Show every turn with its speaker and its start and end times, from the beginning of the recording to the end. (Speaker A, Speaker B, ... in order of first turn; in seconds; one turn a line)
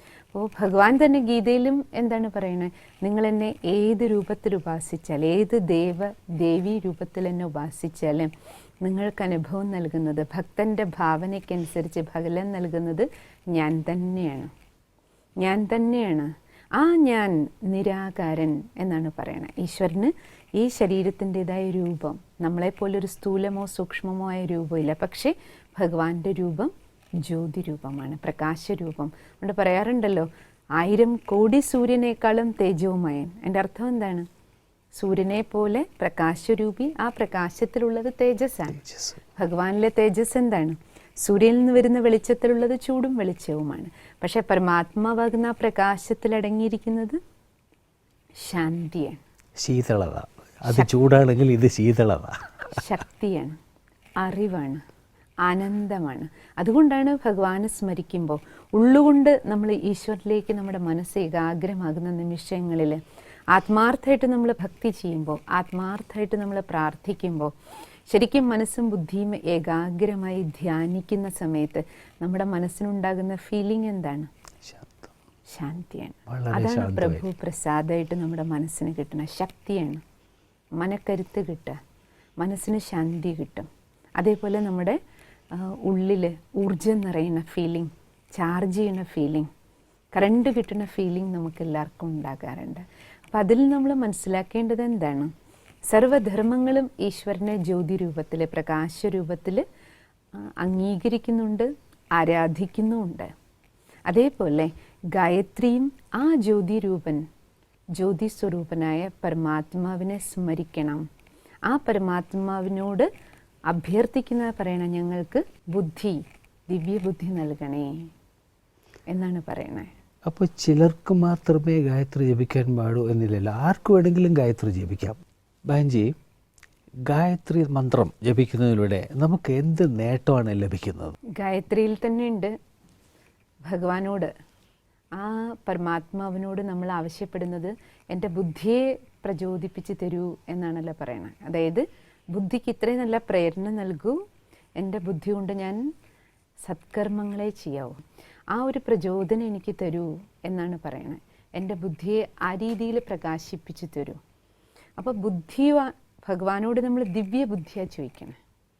Speaker A: 0.3-8.3
Speaker A: 8.8-14.5
Speaker A: 15.4-34.3
Speaker A: 35.0-38.8
Speaker B: 38.7-39.2
Speaker A: 39.4-47.2
Speaker A: 48.4-49.2
Speaker B: 49.6-52.8
Speaker A: 52.7-53.6
Speaker A: 54.2-54.8
Speaker A: 55.4-63.0
Speaker A: 63.5-67.5
Speaker A: 68.1-74.3
Speaker B: 74.6-75.1
Speaker A: 75.5-80.0
Speaker B: 76.3-77.3
Speaker A: 80.8-81.8
Speaker A: 82.4-85.0
Speaker A: 85.5-89.5
Speaker A: 90.2-95.3
Speaker A: 95.9-99.7
Speaker A: 100.4-103.3
Speaker A: 104.1-107.3
Speaker A: 108.0-111.1
Speaker A: 111.7-113.1
Speaker A: 113.7-118.1
Speaker A: 119.1-119.9
Speaker B: 120.3-126.1
Speaker B: 127.1-131.2
Speaker A: 131.4-132.6
Speaker A: 133.7-134.3
Speaker A: 135.2-144.2
Speaker A: 144.8-145.8
Speaker A: 146.6-148.0
Speaker A: 148.5-154.2
Speaker A: 155.0-158.4